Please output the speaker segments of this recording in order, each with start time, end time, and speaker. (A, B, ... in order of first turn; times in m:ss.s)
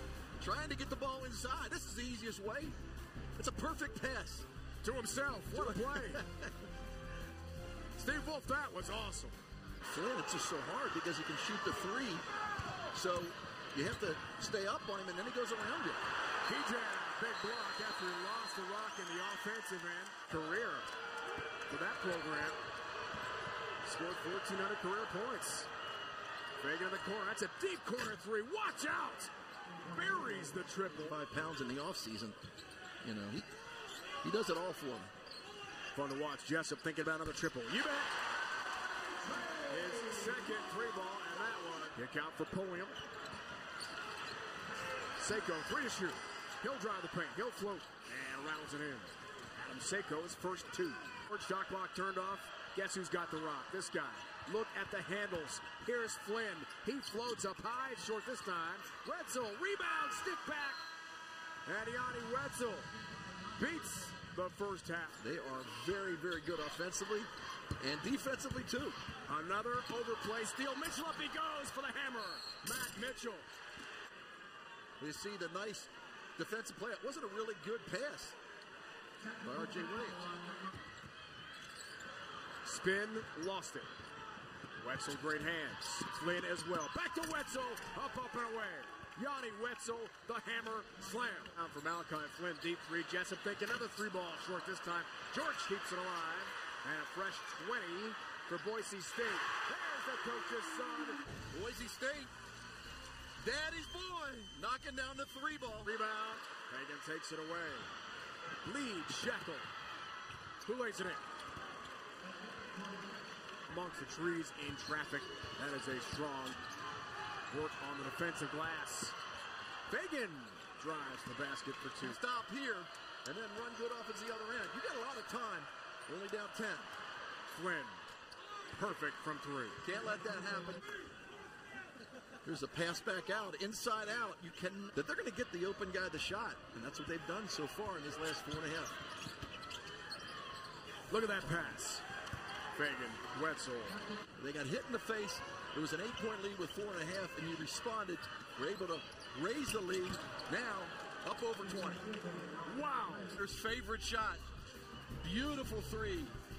0:00.4-0:02.7 A
0:03.4-0:04.5 A
0:04.8-0:06.2 B
0:05.5-0:06.5 A
0:08.0-0:09.4 B
0:09.9-0:12.2 A
0:12.9-0:16.0 A
0:16.4-0:20.9 B
0:21.7-0:22.6 B
0:23.8-0:25.7 B
0:26.6-0:29.3 B
0:29.9-0:31.2 B
0:31.0-0:32.4 A
0:33.0-0:33.5 A
0:34.2-0:35.1 A
0:35.9-0:38.2 B
0:39.6-0:43.0 B
0:45.2-1:00.8 B
1:01.7-1:02.9 B
1:03.5-1:05.2 B
1:05.2-1:09.0 A
1:09.3-1:13.5 B
1:15.0-1:18.4 A
1:19.4-1:20.3 A
1:22.6-1:23.9 B
1:24.8-1:41.2 B
1:41.5-1:42.3 A
1:43.4-1:45.9 A
1:45.8-1:47.9 B
1:48.6-1:49.7 B
1:50.6-1:51.2 B
1:53.7-1:56.6 B
1:57.5-1:59.2 B
1:59.9-2:02.2 B
2:02.0-2:06.9 A
2:07.5-2:08.0 B
2:08.8-2:09.8 B
2:09.8-2:10.8 A
2:12.4-2:19.0 A
2:21.1-2:22.0 B
2:22.7-2:24.0 B
2:24.4-2:32.1 A
2:32.7-2:33.3 B
2:33.3-2:34.4 A
2:35.2-2:36.3 A